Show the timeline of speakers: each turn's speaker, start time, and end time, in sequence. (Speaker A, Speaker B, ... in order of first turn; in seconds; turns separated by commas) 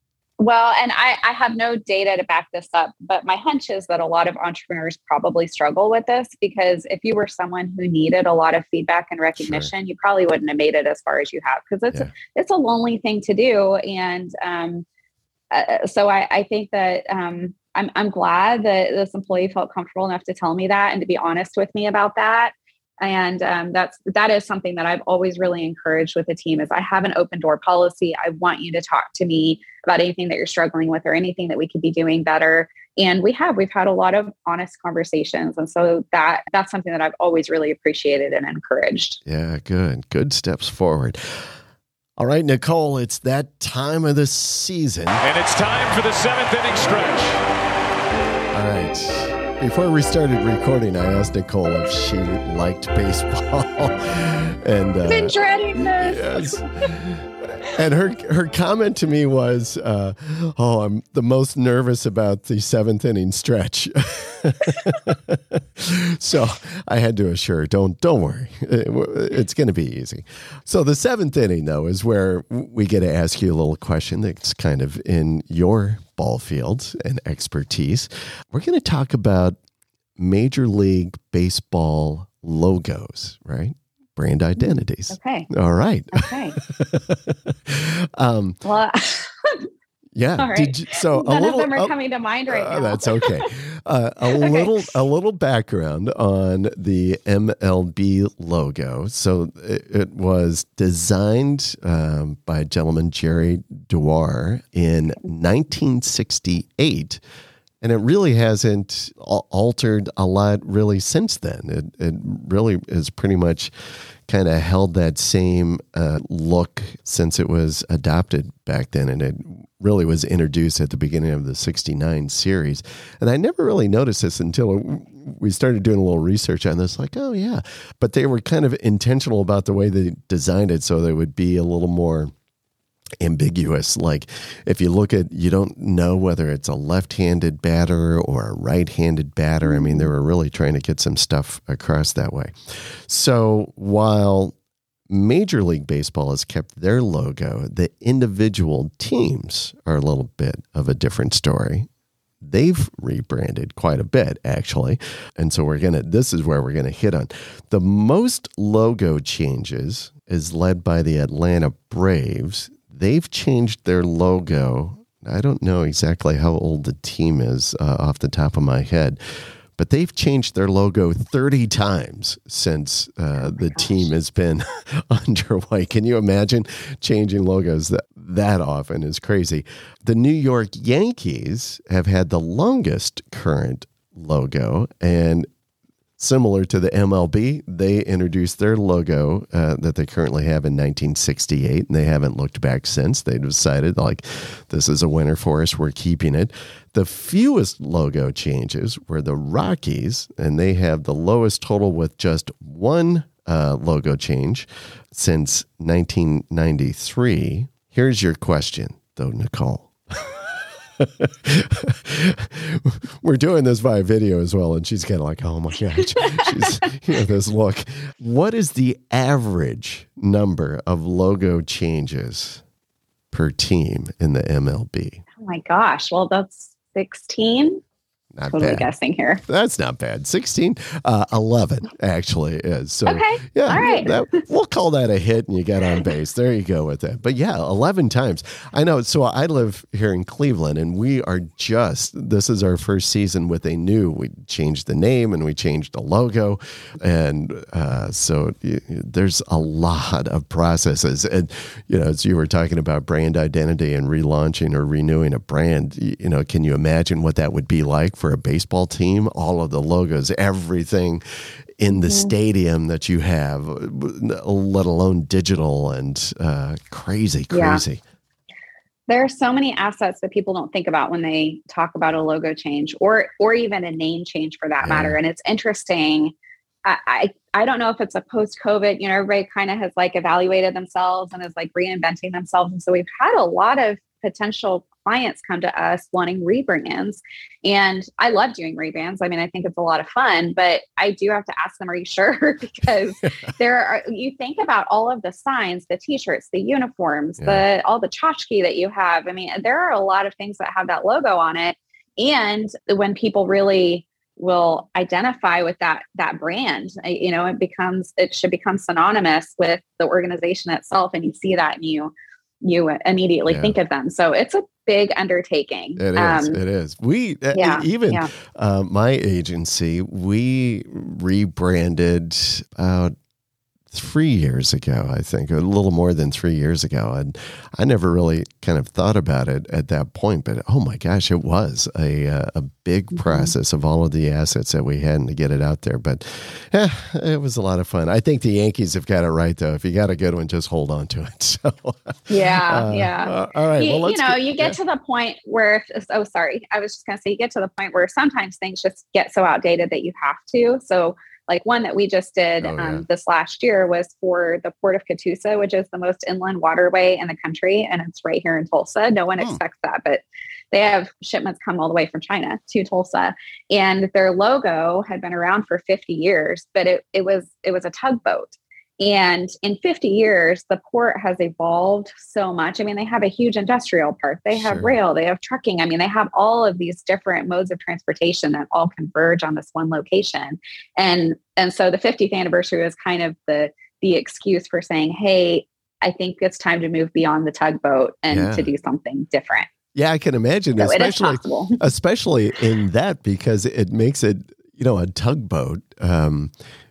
Speaker A: 0.4-14.8, Speaker B: 9.4-9.7, Speaker A: 15.5-39.2, Speaker B: 39.2-41.4, Speaker B: 42.2-45.2, Speaker C: 45.2-47.4, Speaker B: 48.5-79.5, Speaker A: 55.1-56.9, Speaker B: 80.2-88.6, Speaker A: 85.1-85.5, Speaker A: 86.1-86.6, Speaker A: 88.6-89.7, Speaker B: 90.1-91.9, Speaker A: 90.4-93.5, Speaker B: 92.5-107.2, Speaker A: 94.3-94.7, Speaker B: 107.8-113.7, Speaker B: 114.3-132.3, Speaker B: 133.2-144.5, Speaker A: 139.6-140.1, Speaker B: 145.1-151.9, Speaker B: 152.4-169.2, Speaker B: 169.8-185.5, Speaker A: 173.4-174.1, Speaker B: 186.2-210.5, Speaker B: 211.0-222.6, Speaker B: 223.3-225.2, Speaker A: 225.4-227.8, Speaker B: 228.3-228.9, Speaker A: 228.5-229.4, Speaker B: 229.4-261.2, Speaker A: 233.1-234.2, Speaker B: 261.8-268.0, Speaker A: 261.9-262.3, Speaker A: 267.5-267.8, Speaker A: 269.1-316.6, Speaker B: 274.8-275.2, Speaker B: 313.5-313.8, Speaker B: 316.0-323.1, Speaker A: 317.5-318.3, Speaker B: 323.9-344.8, Speaker A: 333.2-333.5, Speaker A: 342.3-389.7, Speaker B: 352.6-353.0, Speaker B: 374.5-374.9, Speaker B: 388.3-388.7, Speaker B: 389.9-396.5, Speaker A: 390.8-391.8